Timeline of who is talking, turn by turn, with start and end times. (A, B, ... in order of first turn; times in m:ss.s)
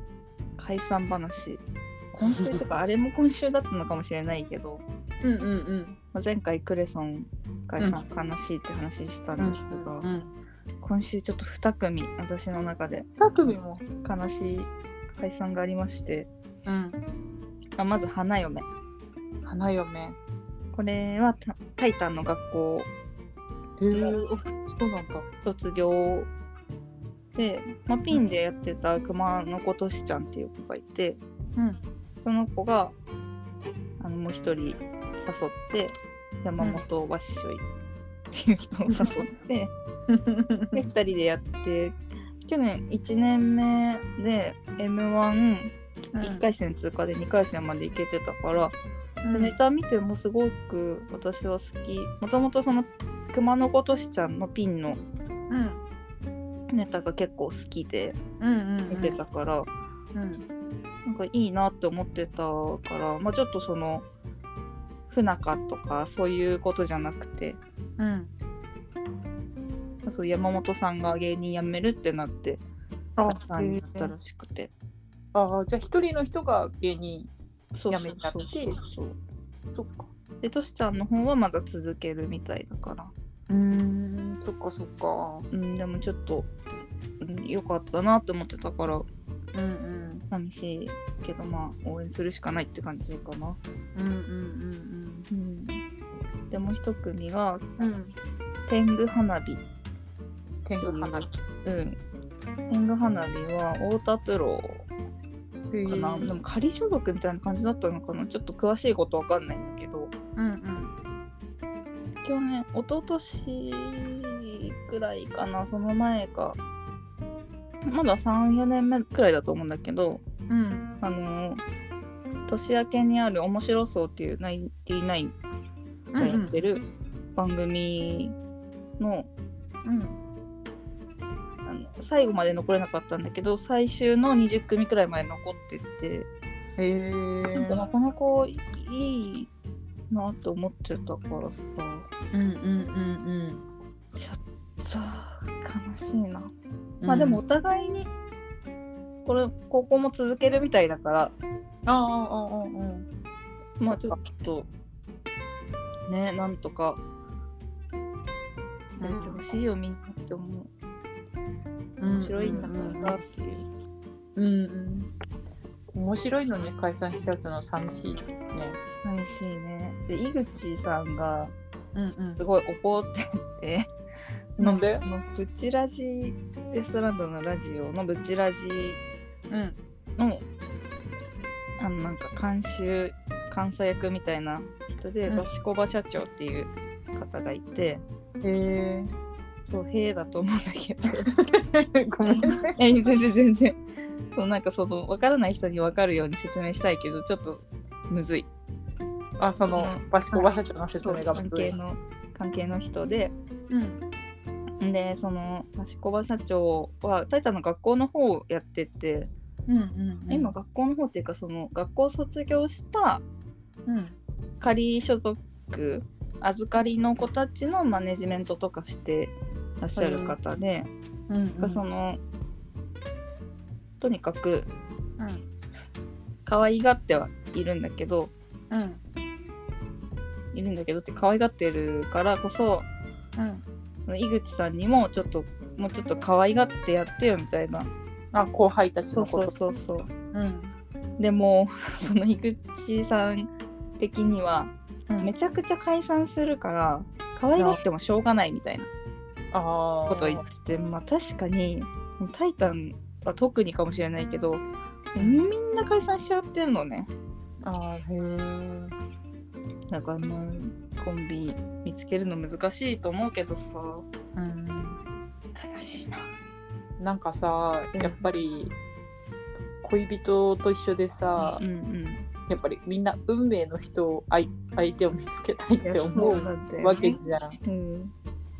0:00.6-0:01.6 A
0:02.1-0:04.8 A
0:02.3-0:02.6 B
0:05.2-0:06.0 B
0:06.1-0:10.1 A
0:09.4-0:10.3 B
0:10.8-0:13.1 A
0:13.2-0:13.8 B
0:14.0-0:16.3 A
0:16.7-0:17.0 B
0:17.8-0:18.7 A
0:19.4-0:20.2 B
0:20.7-0:22.9 A
0:23.8-0:25.3 B
0:25.4-0:26.3 A
0:27.4-0:31.2 A
0:32.2-0:33.0 A
0:34.0-0:37.6 A
0:38.3-0:39.7 A
0:39.0-0:39.3 B
0:40.1-0:40.8 B
0:40.7-0:48.8 A
0:46.2-0:46.4 B
0:49.2-0:49.6 B
0:49.3-0:55.0 A
0:55.5-0:55.8 B
0:56.7-0:58.2 A
0:58.4-0:59.2 B
0:58.9-0:59.7 A
1:00.2-1:00.5 B
1:01.0-1:04.1 A
1:05.1-1:07.6 A
1:08.0-1:08.3 B
1:10.0-1:12.6 A
1:13.2-1:14.1 B
1:13.2-1:14.7 A
1:15.3-1:17.3 B
1:17.8-1:19.2 A
1:17.9-1:18.8 B
1:19.8-1:20.1 B
1:20.4-1:23.1 A
1:23.5-1:25.5 B
1:25.5-1:26.5 A
1:27.2-1:29.1 A
1:29.5-1:30.2 B
1:30.3-1:33.6 A
1:34.0-1:35.3 B
1:35.3-1:35.8 A
1:36.5-1:37.6 A
1:37.8-1:38.2 B
1:38.7-1:39.6 A
1:40.6-1:41.3 B
1:40.8-1:42.0 A
1:42.7-1:44.9 A
1:45.7-1:46.3 B
1:45.9-1:50.1 A
1:50.4-1:50.9 B
1:52.2-1:56.6 A
1:57.8-2:00.2 A
2:00.5-2:00.9 B
2:01.0-2:01.6 A
2:02.5-2:05.4 A
2:06.2-2:06.5 B
2:06.2-2:06.8 A
2:07.4-2:08.4 A
2:09.0-2:09.3 A
2:09.8-2:10.2 B
2:11.6-2:16.3 A
2:16.8-2:17.8 B
2:17.5-2:19.5 A
2:20.1-2:22.1 A
2:22.3-2:23.6 B
2:24.2-2:26.5 A
2:27.0-2:27.4 B
2:27.1-2:28.1 A
2:29.2-2:31.4 A
2:31.9-2:33.1 B
2:33.8-2:34.7 A
2:33.8-2:34.2 B
2:36.1-2:37.0 A
2:39.0-2:39.4 B
2:39.0-2:40.7 A
2:42.0-2:43.1 B
2:42.0-2:43.7 A
2:44.4-2:45.1 B
2:46.0-2:48.8 B
2:49.0-2:51.5 A
2:52.0-2:52.4 B
2:52.4-2:53.9 A
2:54.6-2:55.0 B
2:54.6-2:59.0 A
2:59.5-2:59.8 B
3:00.2-3:00.4 A
3:01.8-3:08.0 A
3:08.4-3:09.1 B
3:09.7-3:11.3 A
3:11.6-3:12.7 B
3:12.3-3:13.8 A
3:14.3-3:18.5 A
3:19.4-3:21.8 B
3:19.7-3:20.5 A
3:21.0-3:23.4 A
3:23.7-3:24.0 B
3:24.8-3:29.3 A
3:29.7-3:30.5 B
3:30.3-3:33.2 A
3:33.9-3:34.2 B
3:34.6-3:40.9 A
3:40.0-3:40.4 B
3:41.3-3:41.8 B
3:41.6-3:42.2 A
3:44.0-3:44.7 A
3:45.2-3:45.4 B
3:46.5-3:48.3 A
3:48.7-3:49.0 B
3:50.5-3:52.9 A
3:53.4-3:53.6 B
3:54.1-3:57.9 A
3:58.3-3:59.6 B
3:59.2-4:00.1 A
4:00.3-4:00.8 B
4:01.2-4:08.9 A
4:09.5-4:10.4 B
4:10.1-4:17.1 A
4:15.2-4:15.5 B
4:17.6-4:19.0 B
4:19.9-4:24.1 A
4:24.4-4:25.0 B
4:25.6-4:26.3 A
4:27.0-4:28.7 B
4:27.9-4:28.3 A
4:29.8-4:31.6 B
4:31.4-4:32.2 A
4:32.5-4:37.6 B
4:35.8-4:38.1 A